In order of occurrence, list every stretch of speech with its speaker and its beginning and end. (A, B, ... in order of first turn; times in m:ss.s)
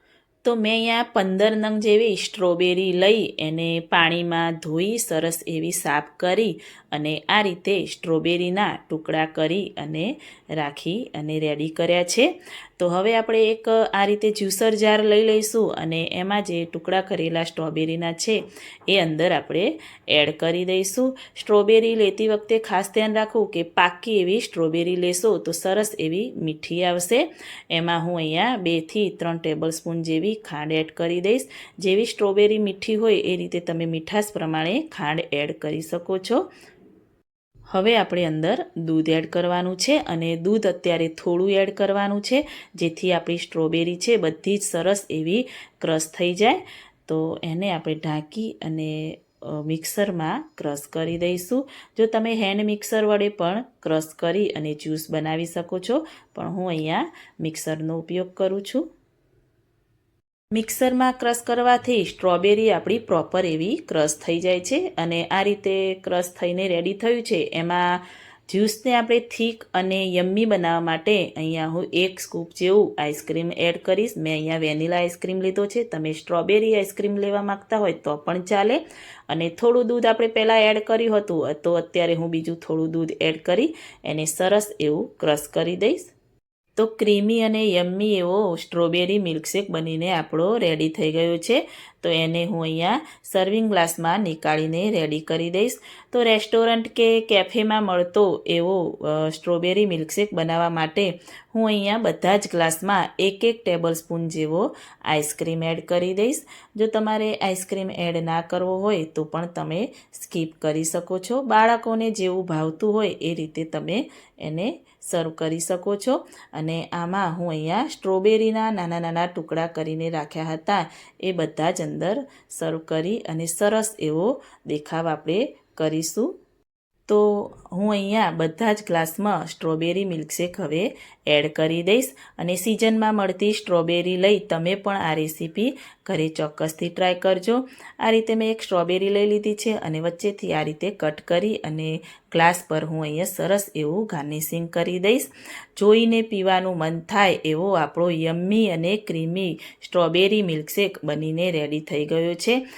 0:00.4-0:36.5 A
0:37.7-0:58.9 A
1:00.5-1:26.1 A
1:26.8-2:06.3 A
2:07.1-2:32.6 A